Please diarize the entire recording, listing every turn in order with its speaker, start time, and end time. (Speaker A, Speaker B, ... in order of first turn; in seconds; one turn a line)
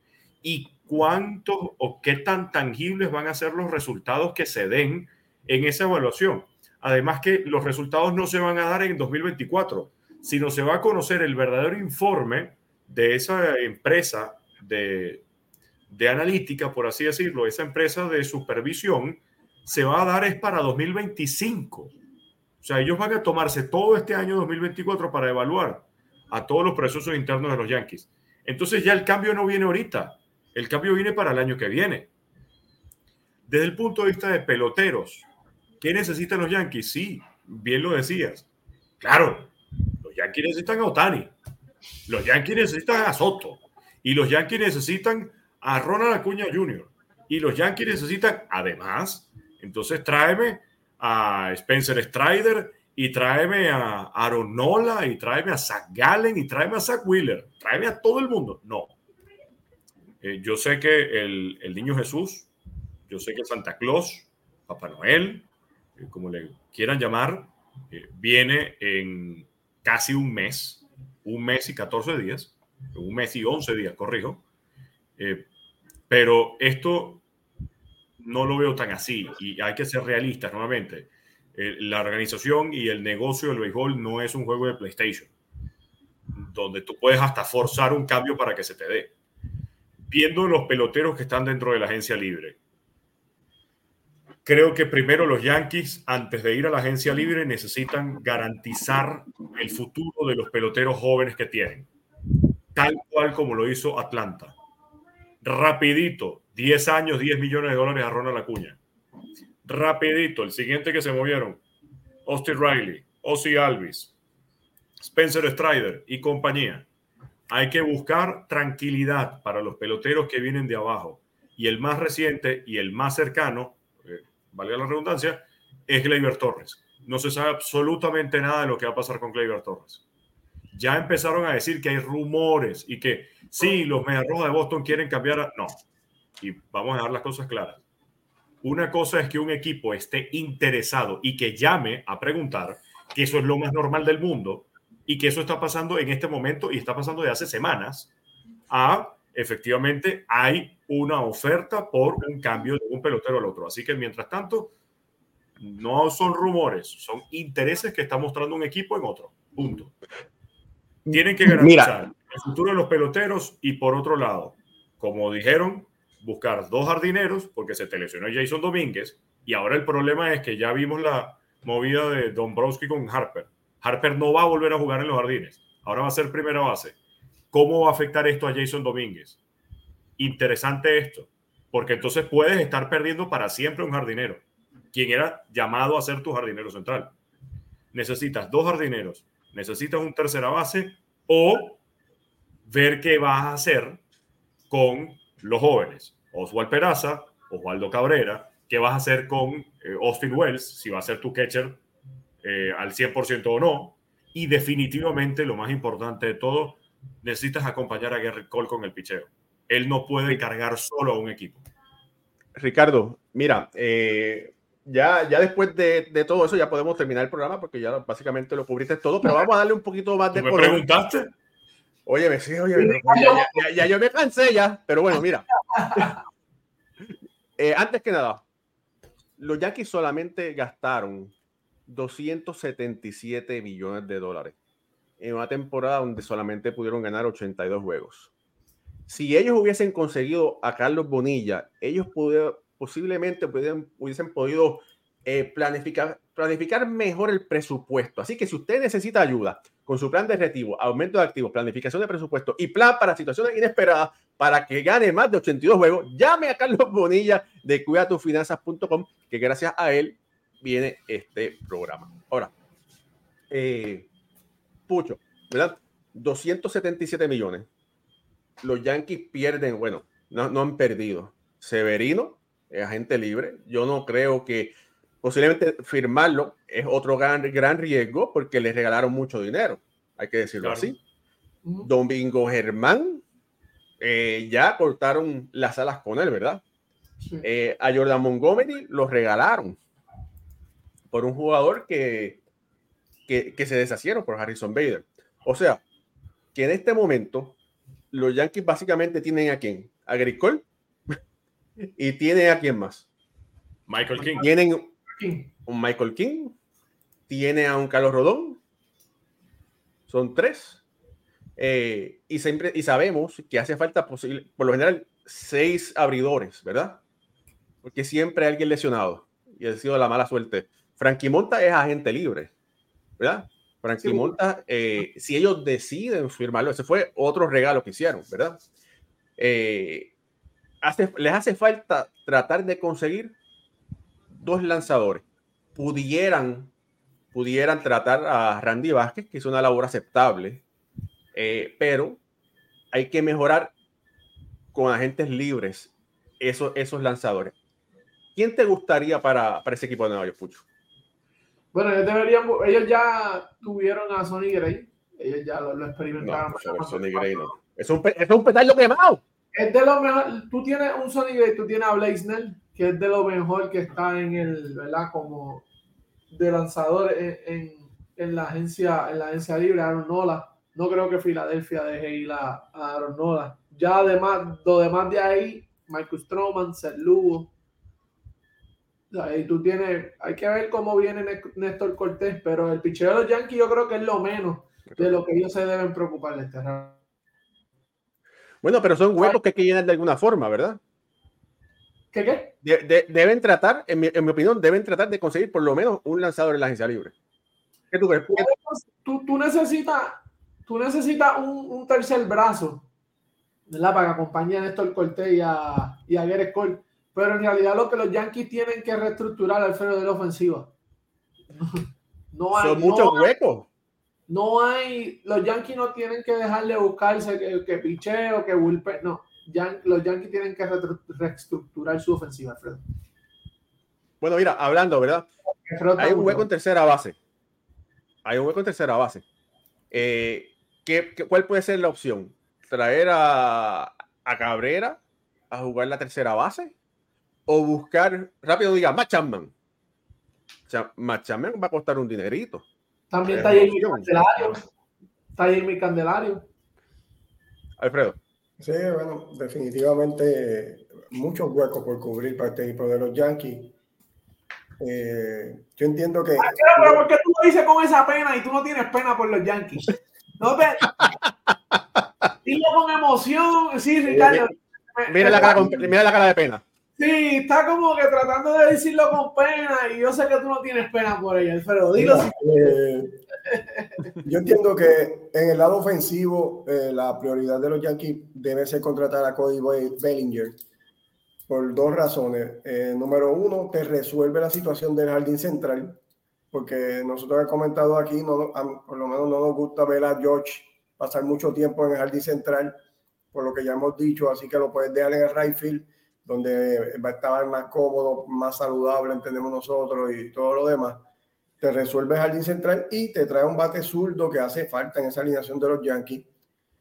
Speaker A: 0.4-15.2
Speaker A: 15.9-21.9
Speaker A: 22.6-32.1
Speaker A: 33.5-35.2
Speaker A: 35.8-38.5
Speaker A: 39.0-39.5
Speaker A: 40.0-41.3
Speaker A: 42.1-58.9
Speaker A: 60.2-62.5
Speaker A: 63.1-74.4
Speaker A: 75.2-75.5
Speaker A: 76.1-77.2
Speaker A: 78.2-85.3
Speaker A: 86.3-89.1
Speaker A: 90.1-92.6
Speaker A: 94.4-101.9
Speaker A: 102.7-104.5
Speaker A: 105.4-108.8
Speaker A: 109.6-111.6
Speaker A: 112.2-114.1
Speaker A: 115.0-116.9
Speaker A: 117.5-130.0
Speaker A: 130.7-135.8
Speaker A: 136.4-137.8
Speaker A: 138.6-148.1
Speaker A: 148.7-154.7
Speaker A: 155.6-159.9
Speaker B: 161.1-161.9
Speaker A: 161.1-177.0
Speaker A: 177.5-179.4
Speaker A: 180.2-187.1
Speaker A: 187.9-191.8
Speaker A: 192.7-194.0
Speaker A: 194.7-201.8
Speaker A: 202.4-211.6
Speaker B: 212.6-220.8
Speaker A: 220.3-221.3
Speaker B: 222.1-226.1
Speaker C: 222.7-223.5
Speaker C: 225.7-226.2
Speaker B: 227.1-228.4
Speaker B: 229.4-231.3
Speaker B: 231.9-234.6
Speaker B: 235.2-238.3
Speaker B: 239.1-262.5
Speaker B: 263.5-264.1
Speaker B: 264.9-267.7
Speaker B: 268.6-281.0
Speaker A: 280.6-280.9
Speaker B: 281.8-283.2
Speaker B: 284.0-286.6
Speaker B: 287.4-289.8
Speaker B: 291.1-292.4
Speaker B: 293.3-295.8
Speaker B: 296.5-297.6
Speaker B: 298.1-300.6
Speaker B: 301.8-303.1
Speaker A: 303.9-304.5
Speaker B: 304.3-304.9
Speaker C: 305.2-305.5
Speaker B: 305.6-306.5
Speaker B: 307.3-308.6
Speaker B: 310.1-310.8
Speaker B: 311.6-317.0
Speaker B: 317.8-322.5
Speaker B: 323.2-328.6
Speaker C: 324.0-324.4
Speaker B: 329.4-330.1
Speaker B: 330.8-333.4
Speaker B: 334.3-336.7
Speaker B: 337.3-340.6
Speaker B: 341.3-342.2
Speaker B: 342.9-343.7
Speaker B: 344.7-347.5
Speaker B: 348.3-350.6
Speaker C: 351.7-357.5
Speaker B: 356.2-359.2
Speaker C: 359.5-365.6
Speaker C: 366.3-377.5
Speaker C: 379.1-387.0
Speaker B: 384.9-385.2
Speaker B: 388.6-390.8
Speaker C: 392.1-392.5
Speaker B: 392.6-397.1
Speaker B: 397.9-398.5
Speaker C: 398.3-402.9
Speaker C: 403.7-410.7
Speaker C: 411.5-413.2
Speaker B: 412.5-413.7
Speaker C: 414.3-422.8
Speaker B: 424.2-425.3
Speaker C: 425.6-426.5
Speaker B: 426.0-427.2
Speaker B: 428.2-429.2
Speaker B: 429.9-436.7
Speaker B: 437.5-439.5
Speaker B: 440.7-442.6
Speaker C: 443.1-444.6
Speaker B: 443.3-444.6
Speaker C: 445.4-446.5
Speaker B: 447.8-448.2
Speaker D: 448.6-453.7
Speaker D: 454.8-457.0
Speaker C: 456.4-460.9
Speaker B: 461.0-461.3
Speaker C: 462.4-465.6
Speaker D: 464.1-464.4
Speaker B: 465.1-466.6
Speaker D: 465.3-465.9
Speaker C: 467.0-472.8
Speaker D: 471.9-473.2
Speaker C: 473.4-474.0
Speaker D: 474.2-480.6
Speaker D: 481.5-486.0
Speaker D: 486.5-492.8
Speaker D: 493.3-501.0
Speaker D: 501.6-506.3